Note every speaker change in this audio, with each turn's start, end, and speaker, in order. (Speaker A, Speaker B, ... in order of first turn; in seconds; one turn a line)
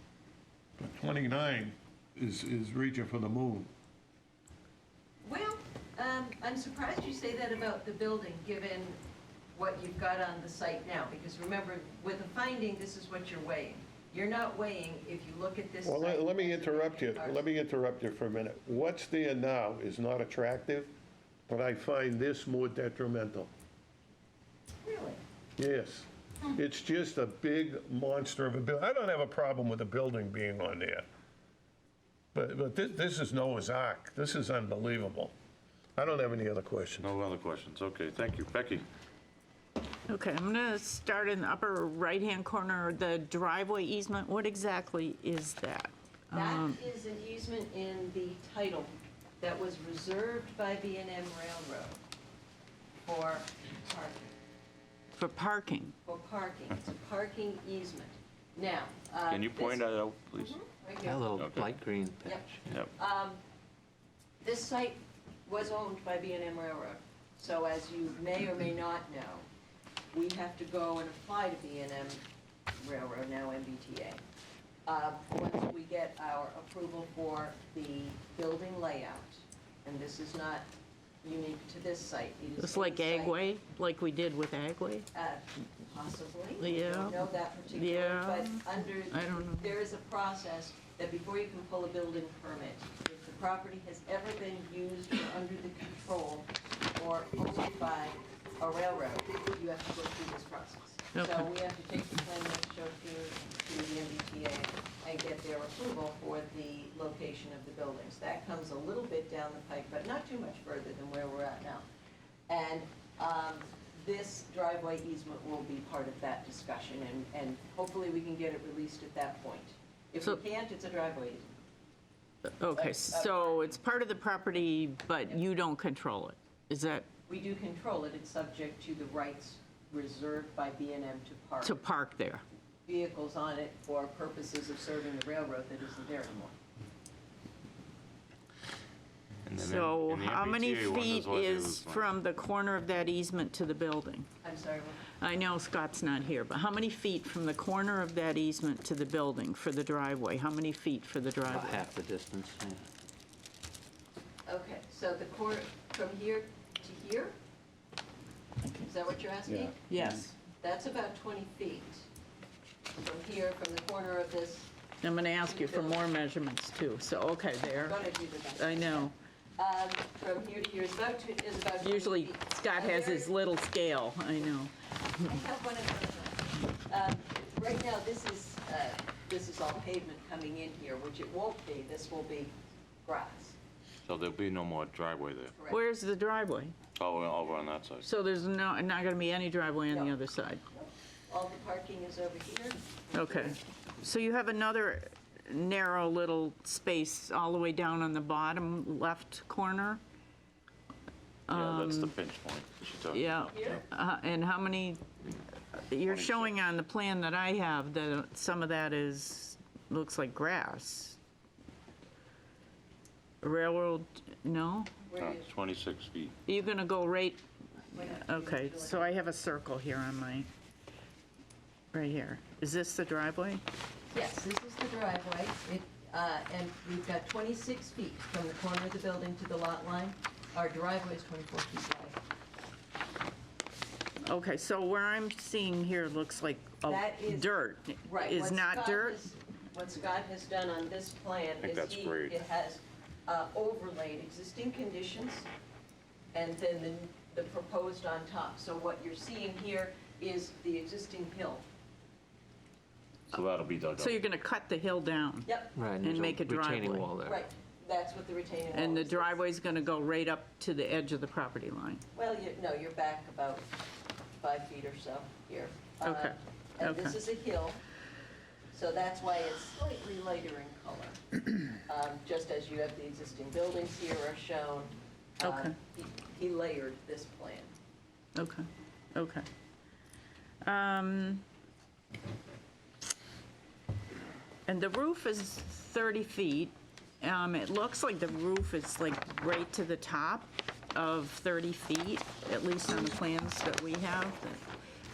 Speaker A: 0.8-3.7
Speaker B: 5.2-9.0
Speaker B: 9.5-17.4
Speaker A: 15.8-20.9
Speaker A: 21.5-23.5
Speaker B: 24.8-25.2
Speaker A: 25.6-31.1
Speaker A: 32.3-35.3
Speaker A: 36.0-37.1
Speaker C: 37.0-38.9
Speaker D: 40.1-46.8
Speaker B: 46.3-52.0
Speaker B: 53.0-54.3
Speaker D: 55.2-55.9
Speaker B: 56.0-61.2
Speaker C: 59.3-60.6
Speaker E: 61.0-62.5
Speaker C: 61.4-61.7
Speaker B: 62.2-63.4
Speaker B: 64.4-69.5
Speaker B: 70.1-72.2
Speaker B: 72.8-74.2
Speaker B: 74.9-80.7
Speaker B: 81.2-83.4
Speaker D: 82.6-85.1
Speaker B: 85.1-111.8
Speaker D: 86.6-89.7
Speaker D: 101.1-101.5
Speaker B: 112.5-121.5
Speaker D: 122.6-127.1
Speaker B: 122.7-123.8
Speaker B: 127.3-131.9
Speaker D: 131.6-132.4
Speaker B: 132.9-136.6
Speaker C: 139.4-142.1
Speaker D: 139.6-144.3
Speaker B: 144.4-145.1
Speaker D: 145.1-151.8
Speaker E: 151.4-152.8
Speaker B: 154.5-157.3
Speaker B: 158.8-159.9
Speaker D: 159.9-160.3
Speaker B: 160.4-162.1
Speaker B: 162.9-164.7
Speaker D: 165.0-169.1
Speaker B: 165.4-166.0
Speaker B: 167.8-173.4
Speaker D: 171.8-174.7
Speaker B: 175.2-182.5
Speaker B: 183.1-183.6
Speaker C: 184.1-185.5
Speaker B: 185.5-185.9
Speaker D: 185.7-186.8
Speaker C: 187.0-188.1
Speaker D: 188.0-190.6
Speaker B: 189.9-190.2
Speaker B: 190.7-193.6
Speaker D: 193.1-200.0
Speaker D: 201.5-202.1
Speaker C: 201.5-203.8
Speaker D: 203.1-205.0
Speaker B: 203.5-203.8
Speaker D: 205.7-211.2
Speaker C: 206.1-206.6
Speaker D: 213.4-214.9
Speaker B: 215.1-215.5
Speaker C: 215.2-216.4
Speaker D: 216.5-217.4
Speaker B: 217.9-219.2
Speaker D: 218.0-220.5
Speaker D: 221.9-223.6
Speaker B: 224.1-232.2
Speaker D: 234.2-239.3
Speaker B: 236.8-245.5
Speaker C: 241.6-242.4
Speaker B: 246.3-251.7
Speaker C: 253.3-254.2
Speaker D: 254.0-257.1
Speaker B: 255.5-255.8
Speaker E: 255.8-257.4
Speaker B: 257.2-259.4
Speaker D: 258.7-262.0
Speaker B: 262.1-263.7
Speaker B: 264.4-267.8
Speaker D: 266.0-267.2
Speaker B: 268.7-277.7
Speaker D: 275.4-275.8
Speaker D: 278.4-279.5
Speaker D: 280.6-281.4
Speaker D: 284.7-294.6